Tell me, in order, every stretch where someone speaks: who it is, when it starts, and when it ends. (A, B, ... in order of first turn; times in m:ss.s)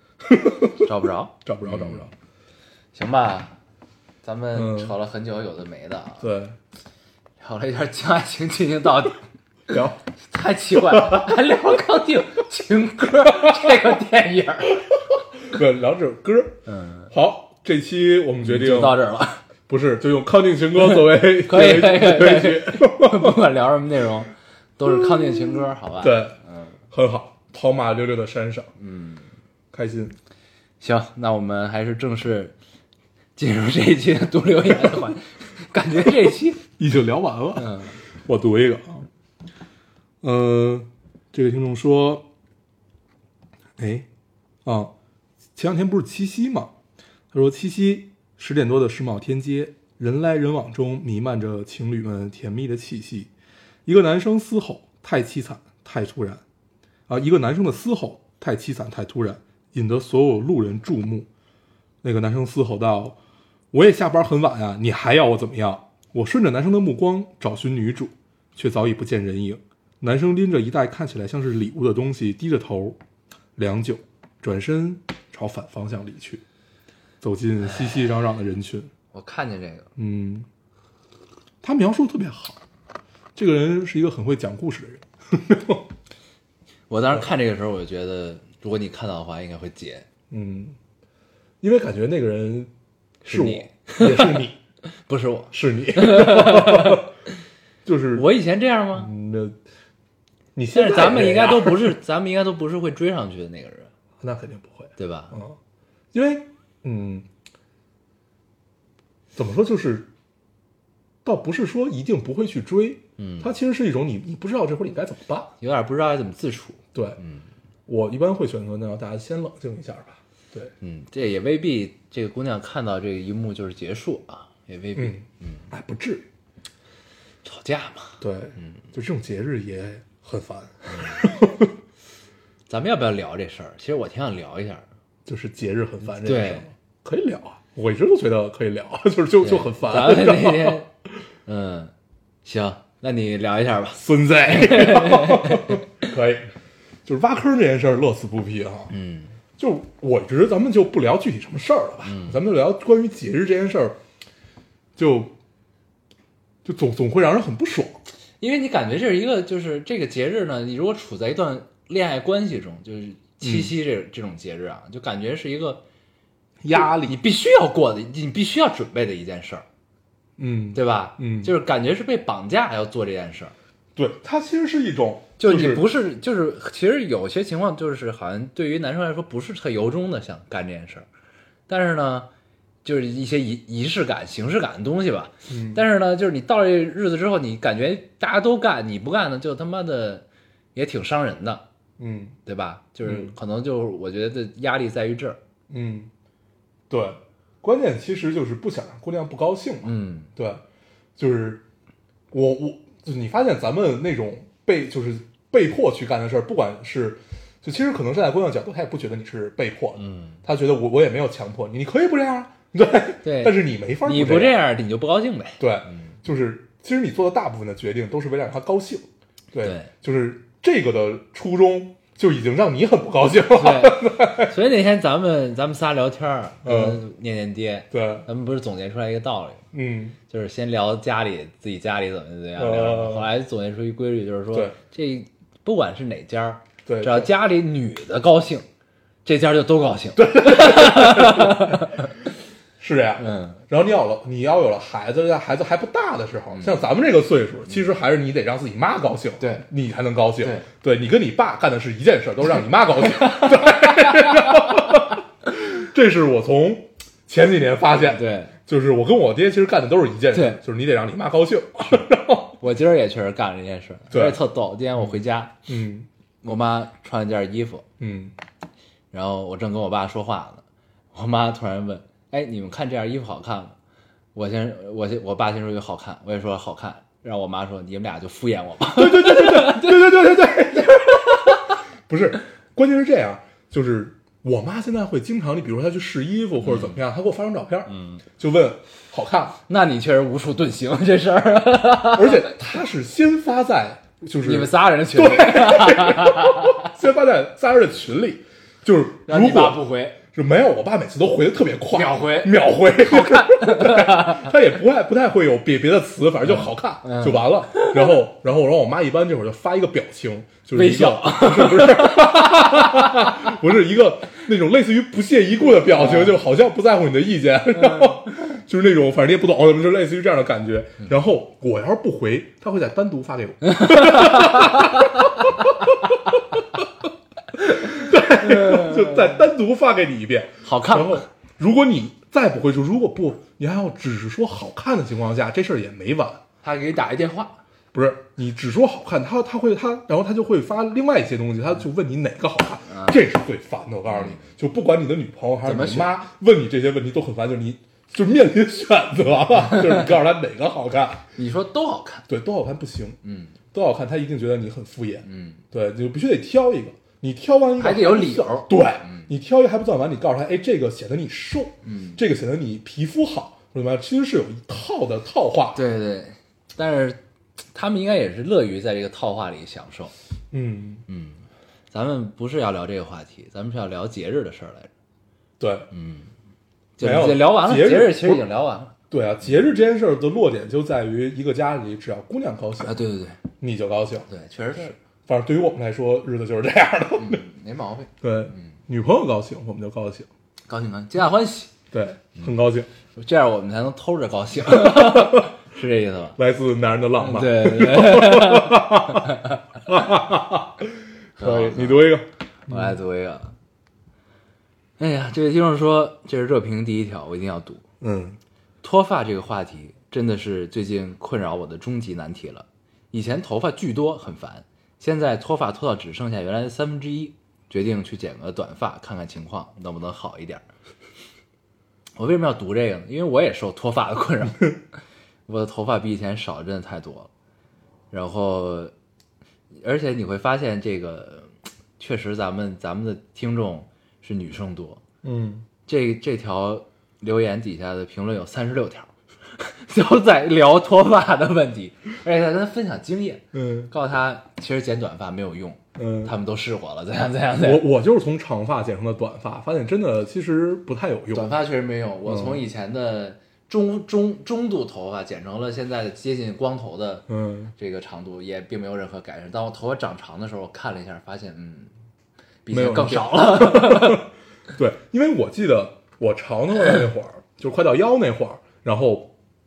0:00.2-0:00.9 A
0:00.8-0:02.1 B
0:01.4-0:02.1 A
0:02.9-0:03.5 B
0:04.2-0:06.2 B
0:04.5-0:04.9 A
0:06.2-0:06.6 A
0:07.4-0:09.2 B
0:09.7-0:10.0 A
0:10.3-0:14.8 B
0:10.7-0:11.6 A
0:13.3-0:13.8 A
0:14.9-0:19.0 A
0:16.7-0:17.1 B
0:18.4-0:19.4 B
0:19.7-0:23.4 A
0:20.8-0:26.7 B
0:25.0-0:26.4 A
0:26.9-0:28.7 A
0:28.8-0:29.3 B
0:29.7-0:30.2 A
0:30.8-0:32.5 B
0:33.4-0:36.6 B
0:36.8-0:39.0 A
0:37.6-0:38.0 B
0:40.2-0:42.3 A
0:43.8-0:44.1 A
0:44.6-0:44.9 A
0:45.6-0:46.7 A
0:47.3-0:53.3 A
0:53.8-0:56.4 A
0:57.1-1:01.3 A
1:02.0-1:03.2 A
1:03.7-1:13.0 A
1:13.6-1:16.4 A
1:17.2-1:18.9 A
1:17.6-1:18.0 B
1:19.1-1:19.9 B
1:20.0-1:20.5 A
1:21.6-1:22.6 A
1:23.4-1:25.8 A
1:26.9-1:30.1 B
1:30.3-1:30.8 A
1:31.6-1:32.7 A
1:33.2-1:34.6 A
1:33.2-1:34.4 B
1:35.1-1:37.1 B
1:35.5-1:37.1 A
1:37.8-1:38.3 A
1:38.1-1:39.1 B
1:38.9-1:39.6 A
1:40.6-1:41.9 A
1:40.7-1:43.9 B
1:44.2-1:45.6 A
1:45.0-1:45.4 B
1:46.1-1:47.3 A
1:49.3-1:50.1 A
1:51.2-1:55.5 A
1:53.2-1:53.5 B
1:55.6-1:57.4 B
1:56.9-1:57.2 A
1:57.9-2:00.7 A
2:00.8-2:05.6 B
2:05.0-2:06.2 A
2:07.4-2:08.8 B
2:08.2-2:11.7 A
2:12.7-2:14.8 B
2:15.2-2:20.8 A
2:16.2-2:16.7 B
2:19.4-2:20.9 B
2:21.4-2:21.9 B
2:22.4-2:25.8 B
2:23.9-2:26.5 A
2:27.0-2:28.9 A
2:28.9-2:29.3 B
2:29.6-2:34.0 A
2:32.0-2:32.4 B
2:35.0-2:35.3 A
2:36.6-2:38.0 A
2:38.4-2:45.8 B
2:43.4-2:43.7 A
2:46.6-2:47.2 A
2:46.7-2:49.6 B
2:50.4-2:51.5 A
2:50.7-2:53.5 B
2:54.0-2:55.9 A
2:55.4-3:01.0 B
3:01.7-3:02.3 B
3:02.8-3:11.6 B
3:05.5-3:05.8 A
3:12.0-3:12.4 A
3:12.4-3:15.4 B
3:13.0-3:13.3 A
3:15.7-3:16.1 A
3:16.9-3:20.6 A
3:19.8-3:20.3 B
3:21.2-3:21.6 A
3:22.3-3:34.6 A
3:30.0-3:30.4 B
3:33.2-3:36.1 B
3:35.6-3:44.5 A
3:39.6-3:39.9 B
3:43.5-3:49.6 B
3:46.6-3:47.0 A
3:47.9-3:48.3 A
3:49.7-3:50.2 A
3:50.3-3:58.6 B
3:52.6-3:53.3 A
3:56.8-3:57.3 A
3:59.2-4:02.1 B
4:00.2-4:02.0 A
4:02.8-4:22.6 A
4:03.2-4:03.6 B
4:06.5-4:06.8 B
4:09.4-4:09.7 B
4:10.4-4:10.7 B
4:13.2-4:14.8 B
4:18.0-4:18.5 B
4:20.3-4:20.6 B
4:22.6-4:25.5 B
4:24.1-4:24.4 A
4:25.7-4:26.1 A
4:26.4-4:27.8 B
4:28.0-4:28.3 A
4:29.1-4:33.7 B
4:34.3-4:41.7 B
4:38.9-4:49.6 A
4:46.6-4:47.0 B
4:47.9-4:48.2 B
4:49.7-4:52.5 B
4:52.1-4:59.8 A
4:54.4-4:56.8 B
4:59.3-5:00.2 B
5:00.3-5:25.9 A
5:01.9-5:04.5 B
5:06.4-5:08.2 B
5:10.7-5:13.3 B
5:15.8-5:16.4 B
5:17.8-5:18.1 B
5:23.8-5:24.9 B
5:27.6-5:36.4 A
5:28.4-5:29.2 B
5:30.6-5:31.2 B
5:36.6-5:37.6 B
5:37.9-5:51.2 A
5:42.9-5:43.2 B
5:44.1-5:44.4 B
5:45.6-5:46.1 B
5:51.4-5:52.2 B
5:52.3-5:53.2 A
5:53.2-5:53.5 B
5:53.7-6:05.8 A
5:55.2-5:55.6 B
5:57.8-5:59.3 B
6:01.8-6:02.2 B
6:05.7-6:07.2 B
6:07.7-6:10.1 B
6:10.5-6:11.0 A
6:11.1-6:14.9 B
6:15.6-6:15.9 A
6:15.9-6:16.3 B
6:17.0-6:19.0 B
6:17.0-6:18.4 A
6:19.1-6:23.0 A
6:22.8-6:23.4 B
6:23.6-6:24.3 A
6:24.3-6:25.0 B
6:25.3-6:27.4 A
6:27.2-6:28.7 B
6:28.2-6:30.3 A
6:30.7-6:31.7 B
6:31.9-6:32.9 A
6:33.1-6:36.4 B
6:34.6-6:35.5 A
6:36.4-6:42.9 A
6:37.2-6:39.6 B
6:41.4-6:43.5 B
6:45.0-6:47.8 B
6:48.0-6:48.4 A
6:48.8-7:00.6 B
7:02.2-7:04.7 B
7:05.5-7:07.3 B
7:08.1-7:08.9 B
7:09.8-7:15.0 B
7:15.2-7:15.6 A
7:15.8-7:27.8 B
7:23.5-7:23.9 A
7:26.0-7:26.3 A
7:27.6-7:31.5 A
7:31.3-7:41.9 B
7:32.2-7:32.6 A
7:37.3-7:37.7 A
7:42.6-7:44.3 B
7:42.7-7:49.3 A